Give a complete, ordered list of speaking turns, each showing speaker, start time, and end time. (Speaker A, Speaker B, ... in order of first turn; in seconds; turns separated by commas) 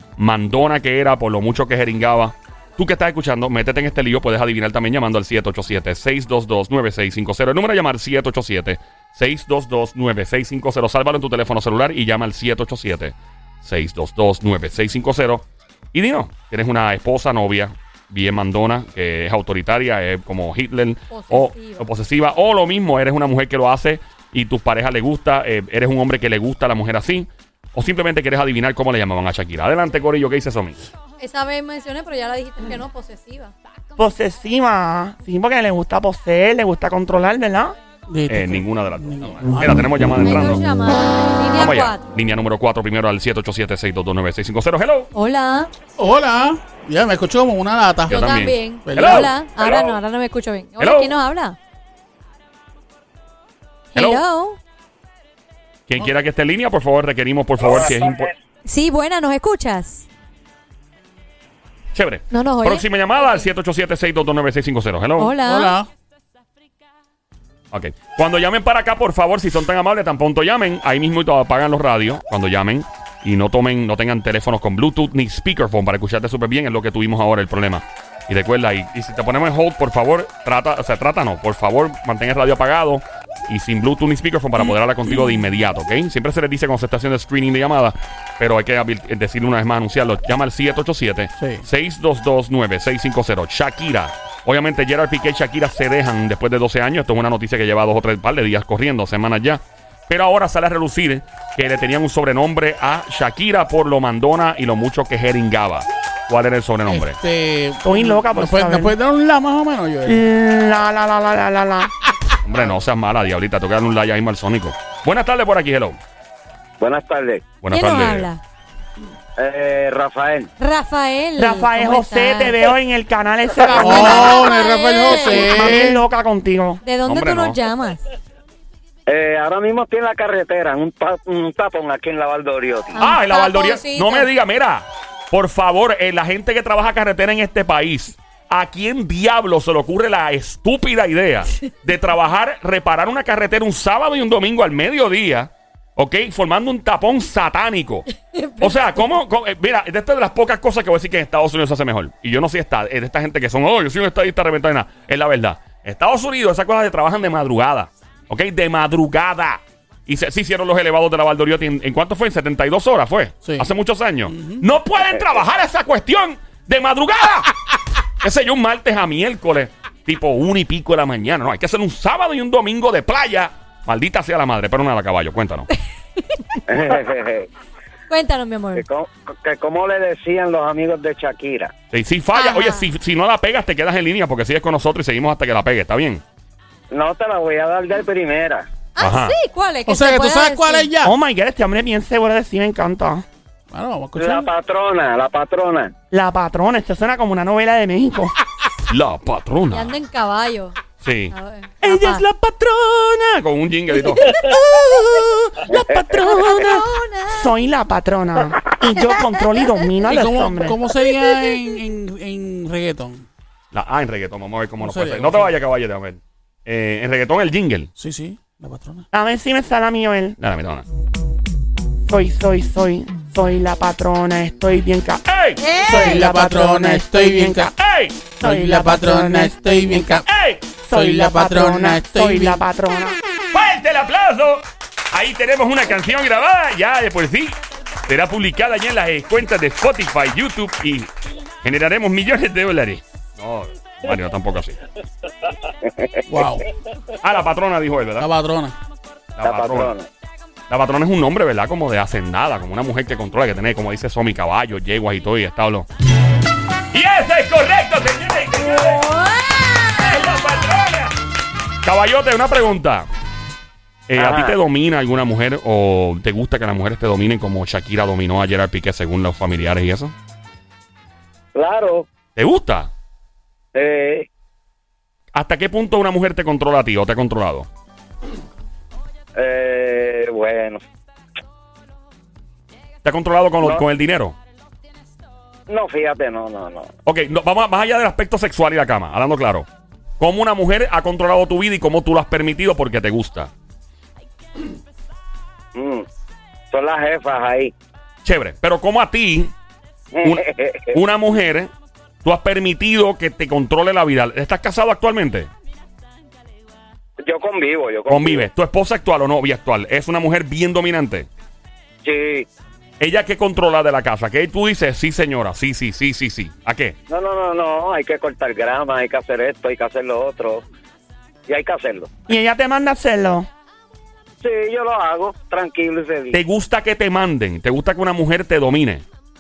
Speaker A: 0.2-30.8, Speaker B: 21.1-21.9, Speaker B: 31.2-33.5, Speaker C: 34.0-37.8, Speaker D: 38.1-40.5, Speaker A: 38.3-40.6, Speaker B: 40.2-42.1, Speaker A: 41.6-45.1, Speaker B: 45.1-45.7, Speaker D: 46.0-48.4, Speaker A: 48.1-50.0, Speaker B: 48.1-51.6, Speaker D: 48.9-49.3, Speaker A: 50.8-51.1, Speaker B: 53.9-54.6, Speaker A: 54.0-54.2, Speaker A: 55.9-58.3, Speaker E: 57.8-58.3, Speaker B: 58.6-60.1, Speaker A: 61.9-65.4, Speaker B: 62.3-63.5, Speaker B: 65.2-65.8, Speaker D: 65.4-65.9, Speaker A: 67.7-107.2, Speaker D: 91.4-91.7, Speaker D: 106.8-110.2, Speaker C: 107.8-108.9, Speaker C: 110.1-111.9, Speaker A: 112.5-116.0, Speaker E: 116.8-117.5, Speaker A: 117.6-118.3, Speaker B: 117.7-118.4, Speaker E: 119.4-120.5, Speaker B: 120.6-122.7, Speaker C: 121.4-124.5, Speaker B: 123.6-125.7, Speaker D: 123.7-126.0, Speaker C: 125.1-126.8, Speaker B: 126.8-128.0, Speaker A: 127.0-127.6, Speaker E: 129.1-133.0, Speaker B: 132.9-134.3, Speaker A: 133.0-148.1, Speaker B: 148.1-149.1, Speaker A: 148.6-167.6, Speaker D: 163.4-163.7, Speaker D: 164.3-164.6, Speaker A: 168.2-175.7, Speaker B: 176.2-176.6, Speaker E: 176.7-177.5, Speaker B: 178.1-178.8, Speaker E: 178.8-181.7, Speaker A: 181.9-186.2, Speaker B: 182.3-182.8, Speaker E: 186.9-188.7, Speaker B: 189.0-190.9, Speaker A: 189.0-189.3, Speaker D: 189.9-191.2, Speaker C: 191.0-193.2, Speaker D: 193.7-194.5, Speaker E: 194.2-195.9, Speaker C: 196.1-198.3, Speaker A: 198.9-199.9, Speaker B: 199.7-200.8, Speaker A: 201.0-201.3, Speaker B: 201.3-202.3, Speaker C: 201.8-202.2, Speaker A: 201.9-204.4, Speaker C: 204.4-210.8, Speaker A: 205.5-206.2, Speaker E: 205.7-206.6, Speaker B: 206.2-207.5, Speaker D: 210.0-213.3, Speaker A: 213.7-217.9, Speaker D: 214.8-215.5, Speaker D: 218.0-219.1, Speaker C: 219.1-220.4, Speaker A: 220.4-220.8, Speaker C: 222.1-225.2, Speaker A: 225.3-225.6, Speaker B: 225.6-226.2, Speaker C: 225.8-227.7, Speaker D: 225.9-227.7, Speaker A: 227.8-228.2, Speaker C: 228.4-230.2, Speaker D: 228.4-230.3, Speaker A: 230.3-230.6, Speaker C: 230.8-233.2, Speaker D: 230.9-232.6, Speaker A: 233.5-241.1, Speaker A: 241.6-244.8, Speaker E: 245.8-246.5, Speaker D: 246.3-246.6, Speaker A: 247.2-248.3, Speaker D: 248.2-248.8, Speaker A: 249.4-249.9, Speaker E: 249.4-250.1, Speaker A: 250.7-255.9, Speaker A: 256.9-259.1, Speaker B: 258.6-260.4, Speaker A: 260.0-261.1, Speaker A: 261.8-263.1, Speaker A: 264.1-270.1, Speaker E: 264.2-264.6, Speaker E: 271.6-272.1, Speaker A: 272.4-272.9, Speaker E: 273.7-274.3, Speaker A: 275.4-277.7, Speaker E: 279.4-280.8, Speaker A: 283.0-284.4, Speaker E: 285.7-286.9, Speaker A: 287.1-289.7, Speaker A: 290.2-293.5, Speaker E: 295.8-296.1, Speaker E: 296.7-297.7, Speaker A: 298.2-299.5, Speaker E: 300.1-301.0, Speaker A: 300.9-301.7, Speaker A: 302.2-305.5, Speaker E: 307.2-308.5, Speaker A: 308.1-311.3, Speaker E: 312.0-312.5, Speaker A: 313.0-317.0, Speaker E: 317.1-320.6, Speaker E: 321.5-322.1, Speaker C: 322.3-323.5, Speaker E: 324.4-326.4, Speaker A: 326.3-329.1